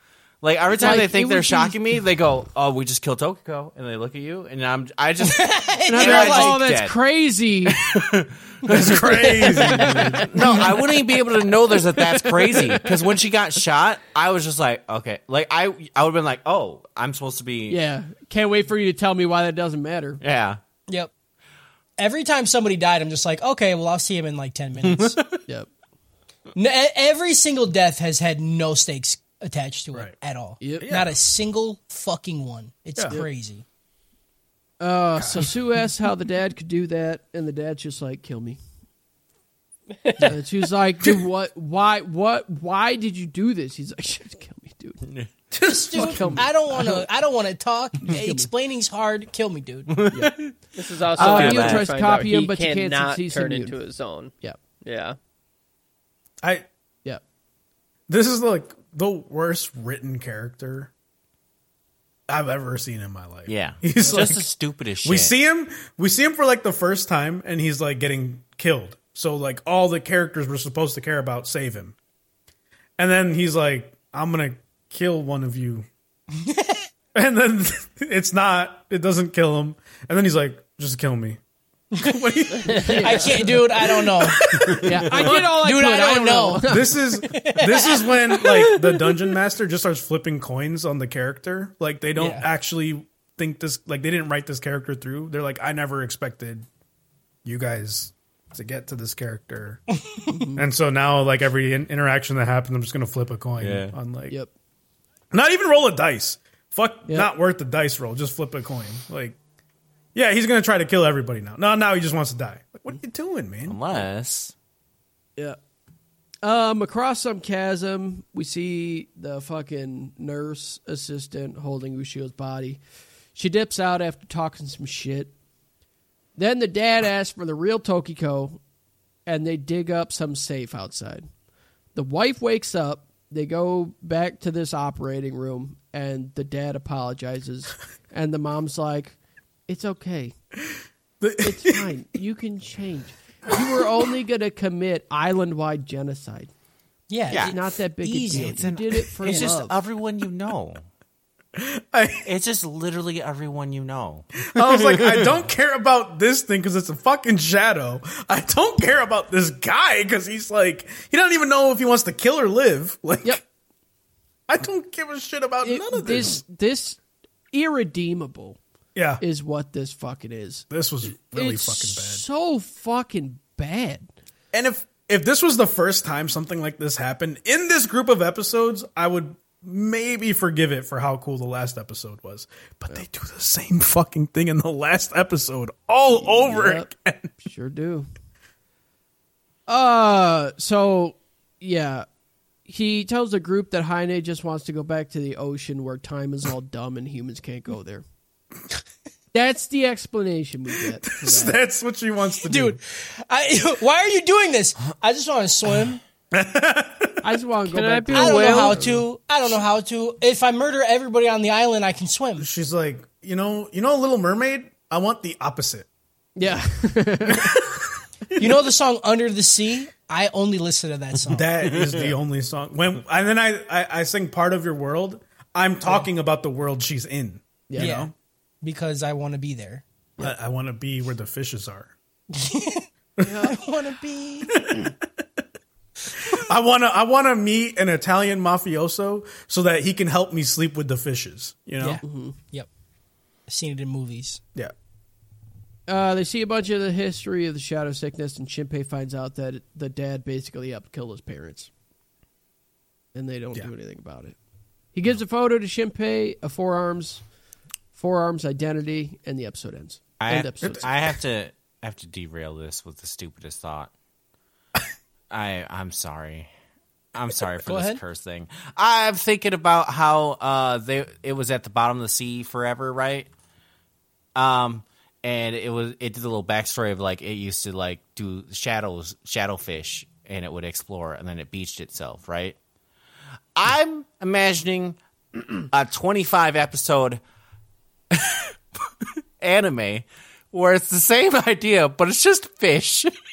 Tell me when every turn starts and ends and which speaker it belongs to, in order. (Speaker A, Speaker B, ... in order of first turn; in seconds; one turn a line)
Speaker A: 0.4-6.9
Speaker B: 0.8-1.8
Speaker C: 5.2-6.6
Speaker B: 5.9-7.8
Speaker A: 7.7-17.8
Speaker C: 8.7-11.0
Speaker D: 8.7-10.3
Speaker B: 9.8-10.2
Speaker C: 12.1-12.8
Speaker B: 17.7-20.2
Speaker A: 20.2-20.6
Speaker C: 22.0-25.2
Speaker A: 24.8-25.4
Speaker C: 26.5-33.6
Speaker B: 30.6-30.9
Speaker D: 30.8-31.2
Speaker D: 33.0-33.2
Speaker B: 34.8-38.6
Speaker D: 35.2-35.6
Speaker B: 40.2-45.0
Speaker D: 45.5-46.4
Speaker C: 45.6-50.0
Speaker B: 45.9-47.0
Speaker B: 48.0-48.5
Speaker A: 49.9-50.5
Speaker B: 50.1-50.4
Speaker E: 50.7-55.2
Speaker A: 51.1-52.0
Speaker B: 51.1-53.8
Speaker D: 58.1-60.9
Speaker D: 62.3-64.5
Speaker A: 63.5-65.3
Speaker B: 64.0-64.3
Speaker D: 65.0-71.9
Speaker D: 73.0-75.9
Speaker C: 76.4-76.9
Speaker D: 77.1-81.4
Speaker D: 81.9-85.3
Speaker B: 82.7-83.6
Speaker C: 82.7-88.7
Speaker A: 84.6-85.0
Speaker B: 84.8-87.0
Speaker D: 86.7-96.7
Speaker C: 92.1-92.5
Speaker D: 97.4-99.8
Speaker C: 100.0-100.2
Speaker B: 100.3-100.6
Speaker D: 100.5-104.3
Speaker A: 103.6-103.9
Speaker D: 105.3-109.4
Speaker D: 110.1-113.8
Speaker A: 113.6-114.5
Speaker B: 116.4-122.8
Speaker B: 123.3-125.3
Speaker B: 126.4-128.6
Speaker B: 129.2-131.3
Speaker B: 131.9-139.2
Speaker B: 139.7-140.3
Speaker D: 141.2-141.8
Speaker B: 141.4-146.5
Speaker C: 147.1-148.7
Speaker B: 147.3-149.8
Speaker A: 147.3-147.5
Speaker A: 148.3-150.8
Speaker D: 151.5-152.3
Speaker A: 152.2-155.4
Speaker D: 154.4-163.4
Speaker D: 164.5-166.4
Speaker B: 165.6-167.0
Speaker B: 167.5-168.6
Speaker D: 168.9-169.2
Speaker B: 169.2-174.1
Speaker D: 170.7-172.2
Speaker D: 174.5-187.3
Speaker B: 186.1-188.1
Speaker B: 189.7-192.1
Speaker B: 192.7-198.0
Speaker B: 199.3-201.6
Speaker D: 201.1-202.8
Speaker C: 202.4-206.0
Speaker D: 206.3-207.2
Speaker B: 207.2-209.0
Speaker E: 207.7-208.8
Speaker C: 208.1-212.5
Speaker D: 212.4-215.9
Speaker B: 216.4-217.5
Speaker D: 217.3-218.7
Speaker C: 218.4-221.5
Speaker D: 221.3-228.1
Speaker A: 221.8-222.1
Speaker B: 227.7-228.0
Speaker C: 227.8-228.1
Speaker C: 228.6-229.8
Speaker D: 230.2-231.9
Speaker C: 232.3-232.9
Speaker B: 233.2-233.6
Speaker C: 233.4-234.7
Speaker D: 234.5-235.0
Speaker D: 236.3-242.0
Speaker C: 241.8-242.7
Speaker B: 242.0-242.3
Speaker C: 243.5-244.4
Speaker B: 245.9-251.7
Speaker B: 253.1-254.3
Speaker B: 254.9-257.2
Speaker B: 257.9-260.9
Speaker A: 260.2-263.9
Speaker D: 260.6-261.0
Speaker A: 265.3-266.5
Speaker A: 267.1-273.3
Speaker C: 267.6-268.0
Speaker A: 274.4-282.6
Speaker A: 283.6-287.2
Speaker A: 288.1-288.5
Speaker A: 289.4-293.1